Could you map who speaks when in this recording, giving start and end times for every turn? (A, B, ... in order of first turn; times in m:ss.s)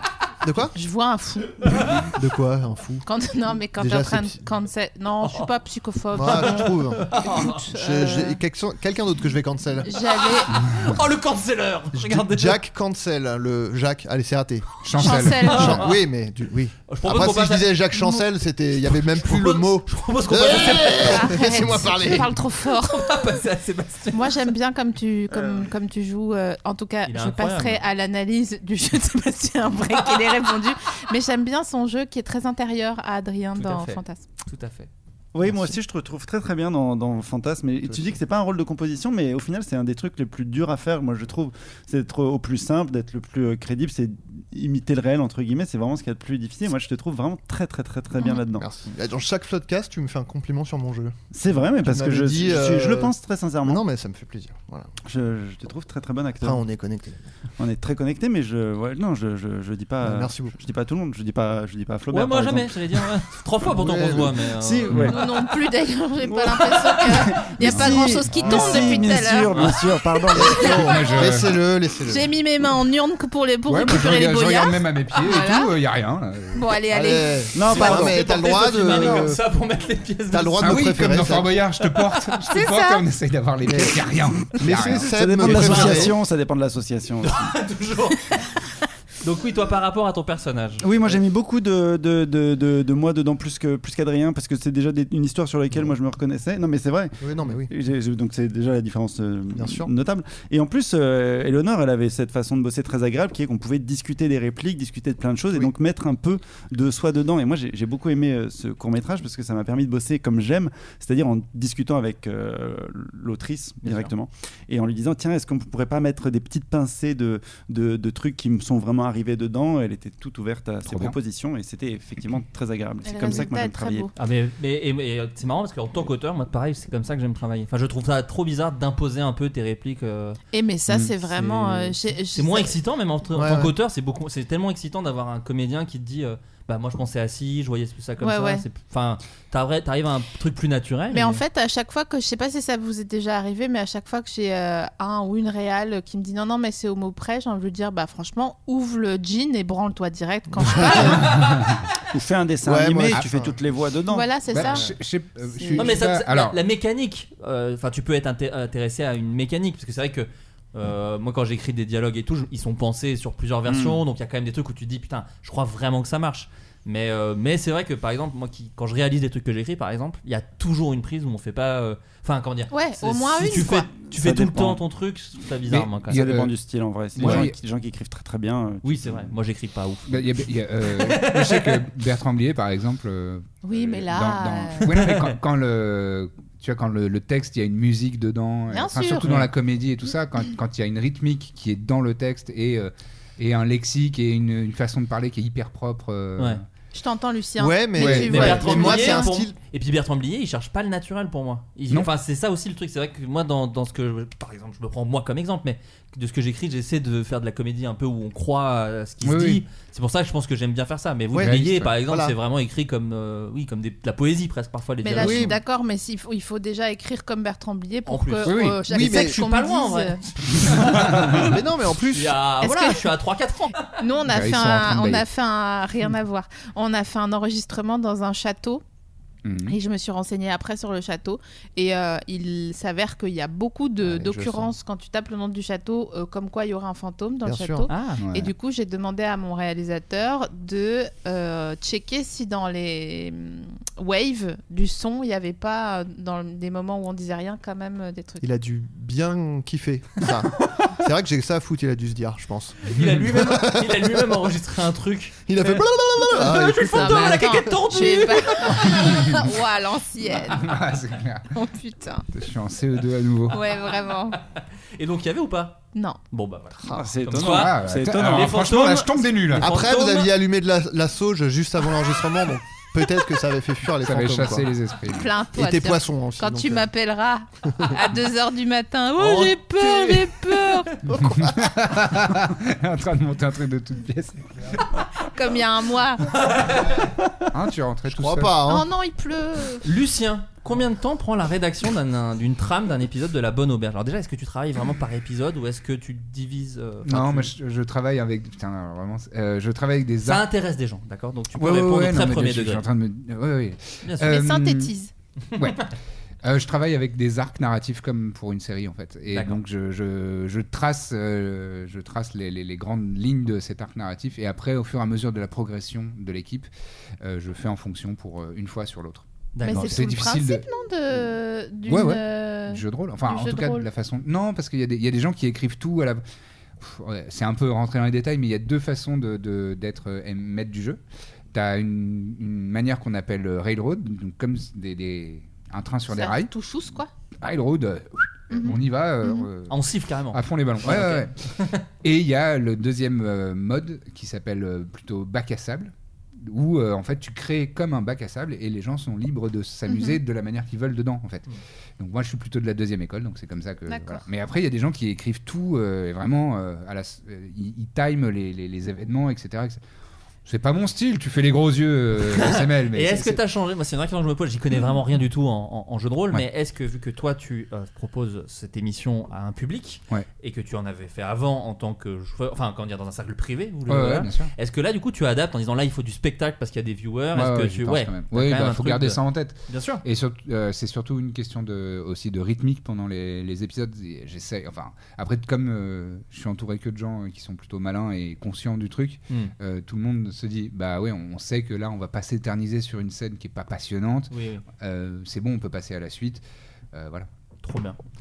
0:00.4-0:00.7 A
0:00.7-0:01.6 B
0:01.7-0:02.0 C
0:02.1-0:03.0 A
0:03.0-0:08.4 B
0:03.8-0:04.4 A
0:06.1-0:09.9 A
0:06.3-0:07.6 C
0:09.8-0:10.6 B
0:10.1-0:12.6 C
0:11.9-0:22.3 A
0:14.8-0:15.9 D
0:15.0-0:15.8 B
0:15.4-0:16.0 C
0:16.9-0:18.2 C
0:18.9-0:21.4 C
0:21.0-0:23.2 B
0:22.8-0:24.5 C
0:24.1-0:34.2 B
0:27.0-0:27.8 C
0:29.9-0:30.5 C
0:33.6-0:34.9 C
0:35.3-0:48.7 E
0:35.5-0:35.7 C
0:37.9-0:38.1 A
0:48.5-0:54.9 A
0:51.3-0:53.8 E
0:55.0-0:56.6 E
0:56.4-0:57.2 A
0:57.6-1:03.1 E
1:00.0-1:00.6 A
1:02.1-1:05.2 C
1:03.7-1:04.3 A
1:04.5-1:05.3 E
1:05.0-1:09.5 B
1:06.2-1:10.8 E
1:08.3-1:09.1 A
1:10.1-1:11.2 B
1:10.3-1:12.3 A
1:10.8-1:11.6 D
1:12.1-1:15.7 B
1:13.6-1:16.6 D
1:16.5-1:18.0 B
1:16.9-1:19.4 A
1:17.5-1:18.3 E
1:17.7-1:20.8 C
1:20.3-1:21.6 A
1:20.6-1:25.9 D
1:22.5-1:23.0 B
1:23.6-1:24.0 A
1:24.6-1:26.2 A
1:25.0-1:27.5 E
1:25.4-1:26.1 C
1:27.2-1:28.5 C
1:29.2-1:31.2 C
1:30.8-2:04.1 E
1:37.2-1:37.7 A
1:39.5-1:39.9 A
1:53.8-1:54.1 C
2:00.8-2:01.2 D
2:03.0-2:04.1 B
2:04.2-2:10.4 C
2:10.5-2:12.8 B
2:10.9-2:11.1 D
2:12.3-2:21.4 C
2:13.3-2:13.7 A
2:18.2-2:18.6 B
2:21.1-2:31.3 B
2:30.6-2:31.4 A
2:31.3-2:31.7 C
2:31.4-2:31.7 D
2:32.1-2:34.3 E
2:32.6-2:33.6 A
2:34.1-2:34.9 B
2:34.5-2:36.6 D
2:35.5-2:35.8 B
2:35.8-2:56.2 C
2:43.7-2:44.0 E
2:52.7-2:53.9 B
2:53.6-2:54.8 E
2:55.7-2:56.5 D
2:56.1-2:59.3 E
2:57.2-2:57.6 D
2:57.2-2:57.5 C
2:58.8-3:01.8 C
3:00.1-3:16.6 D
3:03.6-3:04.9 B
3:04.8-3:05.3 C
3:08.7-3:09.3 B
3:16.9-3:19.4 B
3:17.6-3:19.5 A
3:18.0-3:18.5 D
3:18.1-3:35.6 C
3:29.2-3:29.6 D
3:31.3-3:32.3 A
3:31.4-3:31.9 D
3:35.0-3:40.2 B
3:35.2-3:35.5 A
3:38.1-3:41.6 C
3:38.4-3:38.8 D
3:38.9-3:39.4 A
3:40.9-3:42.4 A
3:41.0-3:41.4 D
3:42.1-3:44.0 C
3:42.6-3:43.0 B
3:43.8-3:48.8 B
3:44.3-3:45.2 D
3:49.4-3:49.8 D
3:49.7-4:08.4 B
3:54.0-3:54.7 A
3:57.4-3:57.9 A
3:57.9-3:58.2 C
3:58.2-3:58.5 D
4:08.4-4:14.2 A
4:12.8-4:19.0 C
4:15.5-4:17.7 A
4:16.9-4:20.7 B
4:19.0-4:19.4 D
4:20.5-4:21.5 D
4:21.5-4:22.2 B
4:22.3-4:23.6 D
4:23.5-4:23.8 C
4:23.5-4:24.4 B
4:24.3-4:30.4 C
4:26.9-4:28.7 E
4:27.4-4:29.7 D
4:29.6-4:34.7 A
4:34.0-4:35.3 D
4:35.1-4:40.9 B
4:35.5-4:36.9 A
4:39.2-4:41.0 C
4:41.1-4:44.8 D
4:45.2-4:46.3 B
4:46.4-4:47.0 C
4:47.5-4:48.6 D
4:48.1-4:48.9 A
4:48.7-4:49.9 B
4:49.8-4:57.5 C
4:57.0-5:00.4 D
5:00.2-5:02.8 C
5:01.5-5:04.9 D
5:04.0-5:04.4 C
5:04.2-5:05.1 B
5:05.5-5:05.9 C
5:05.6-5:05.9 D
5:06.4-5:16.7 D
5:09.3-5:09.6 C
5:17.2-5:20.6 D
5:19.6-5:20.1 C
5:19.6-5:23.8 B
5:21.9-5:26.2 D
5:26.8-5:31.0 D
5:31.5-5:36.5 D
5:36.1-5:37.1 B
5:37.4-5:41.4 D
5:39.7-5:41.8 C
5:42.0-5:59.8 D
5:49.9-5:50.2 B
5:53.9-5:54.2 B
6:00.4-6:03.4 D
6:02.2-6:20.0 C
6:13.9-6:14.5 D
6:17.3-6:37.3 D
6:34.3-6:34.6 C
6:37.6-6:38.0 C